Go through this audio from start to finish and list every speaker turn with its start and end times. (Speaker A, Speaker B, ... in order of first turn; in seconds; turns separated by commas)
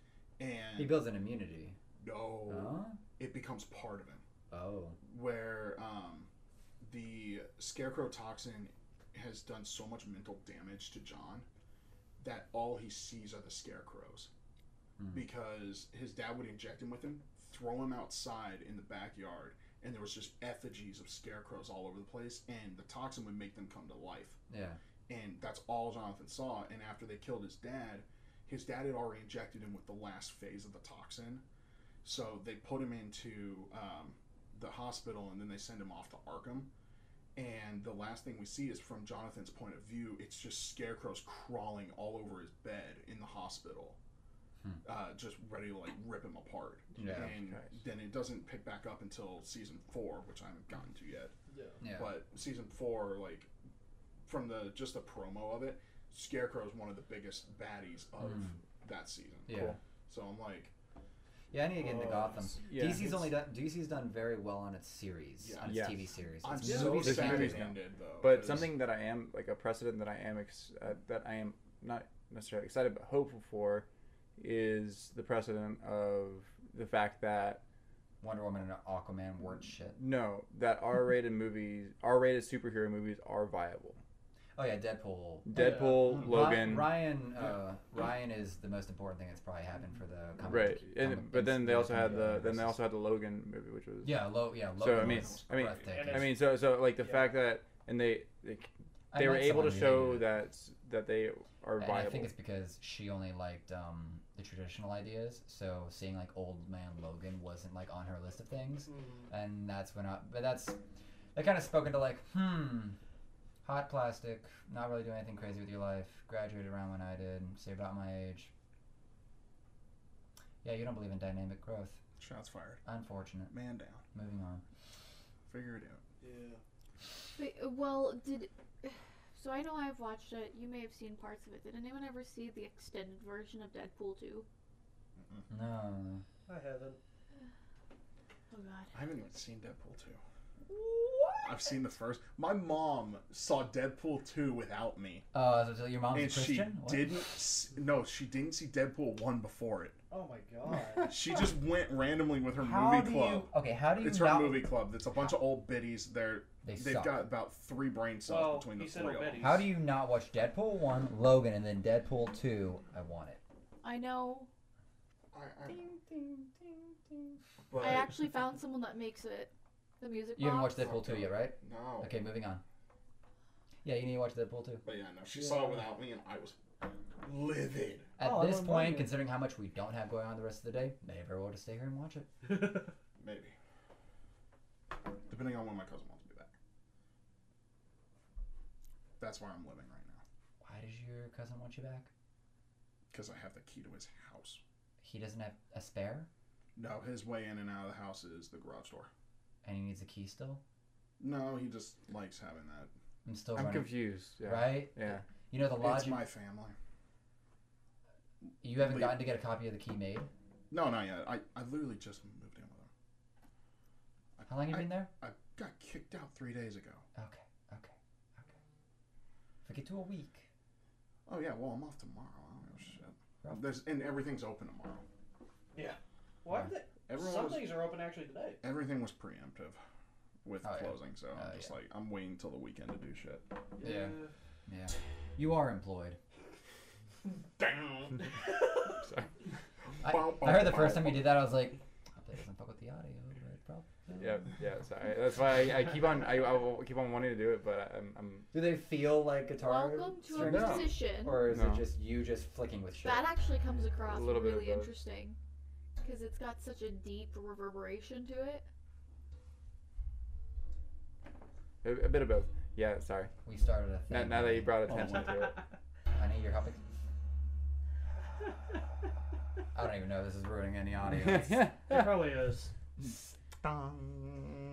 Speaker A: 0.4-1.0, Speaker B: 0.8-1.8, Speaker A: 2.0-4.2, Speaker B: 2.5-3.0, Speaker B: 4.5-5.0, Speaker A: 5.0-6.3, Speaker A: 6.8-11.5, Speaker A: 12.2-14.3, Speaker B: 15.0-15.3, Speaker A: 15.1-24.4, Speaker B: 24.5-24.8, Speaker A: 25.1-31.4, Speaker A: 32.0-36.7, Speaker A: 37.4-44.0, Speaker A: 44.9-51.4, Speaker B: 47.0-47.4, Speaker C: 47.2-47.8, Speaker D: 51.5-51.8, Speaker B: 51.8-52.2, Speaker A: 51.9-53.5, Speaker A: 54.2-59.6, Speaker B: 58.2-58.6, Speaker B: 59.5-59.8, Speaker C: 59.5-59.8, Speaker A: 60.1-60.7, Speaker B: 61.5-67.7, Speaker D: 61.8-62.4, Speaker C: 62.7-63.3, Speaker A: 65.4-65.9, Speaker C: 65.6-66.1, Speaker A: 66.4-68.8, Speaker C: 66.7-77.6, Speaker B: 78.2-80.0, Speaker C: 80.0-84.0, Speaker B: 84.6-92.8, Speaker C: 85.5-87.0, Speaker D: 85.5-86.2, Speaker C: 90.5-102.3, Speaker B: 94.0-96.3, Speaker A: 94.8-95.8, Speaker D: 95.9-97.4, Speaker B: 99.1-100.3, Speaker B: 101.8-110.8, Speaker D: 108.9-109.3, Speaker B: 111.3-113.0, Speaker B: 113.6-118.5, Speaker B: 120.6-122.0, Speaker A: 122.2-122.8, Speaker B: 122.8-123.5, Speaker A: 123.5-124.0, Speaker B: 124.1-124.6, Speaker A: 125.5-126.0, Speaker D: 126.2-126.6, Speaker E: 127.4-134.5, Speaker A: 135.2-135.5, Speaker B: 135.5-136.2, Speaker D: 136.5-137.0, Speaker E: 138.5-138.9, Speaker A: 138.9-140.2, Speaker E: 140.7-141.5, Speaker A: 141.4-145.3, Speaker B: 145.3-147.2, Speaker A: 146.1-150.0, Speaker D: 150.1-151.2, Speaker A: 151.0-159.6, Speaker B: 152.6-154.7, Speaker B: 156.6-157.2, Speaker D: 158.3-159.7, Speaker B: 159.4-163.4, Speaker E: 163.8-164.5, Speaker A: 165.3-165.9, Speaker B: 165.7-167.4, Speaker A: 167.7-168.2, Speaker E: 167.8-170.9, Speaker B: 170.4-172.6, Speaker A: 170.8-172.2, Speaker B: 173.8-174.8, Speaker A: 174.8-176.6, Speaker D: 175.3-175.8, Speaker A: 177.2-178.1, Speaker B: 178.2-182.3, Speaker D: 178.2-179.1, Speaker A: 183.2-183.6, Speaker A: 185.3-186.5, Speaker A: 189.2-190.2, Speaker B: 190.6-192.1, Speaker A: 193.1-194.6, Speaker B: 195.0-196.3, Speaker A: 196.8-199.1, Speaker B: 199.6-200.6, Speaker A: 201.2-202.9, Speaker B: 203.2-206.3, Speaker C: 203.6-205.3, Speaker A: 205.8-206.8, Speaker B: 208.6-210.3, Speaker A: 208.8-209.2, Speaker A: 210.7-212.9, Speaker A: 214.4-217.1, Speaker B: 214.5-215.1, Speaker B: 217.2-217.9, Speaker B: 219.6-220.5, Speaker A: 221.3-225.1, Speaker D: 225.7-228.6, Speaker A: 227.1-227.8, Speaker A: 228.6-229.8, Speaker A: 230.4-233.5, Speaker B: 230.6-231.7, Speaker D: 233.8-234.3, Speaker B: 233.8-236.2, Speaker A: 237.6-238.3, Speaker A: 240.0-241.3, Speaker B: 240.0-244.4, Speaker C: 244.2-248.5, Speaker B: 248.5-253.3, Speaker E: 249.6-251.4, Speaker C: 250.4-251.9, Speaker E: 253.0-255.4, Speaker C: 254.0-254.9, Speaker E: 256.0-258.7, Speaker C: 261.8-263.3, Speaker B: 263.4-265.2, Speaker C: 264.1-265.6, Speaker A: 264.9-265.3, Speaker B: 266.1-266.8, Speaker B: 269.7-271.7, Speaker C: 271.1-272.1, Speaker D: 271.9-272.7, Speaker A: 273.6-274.5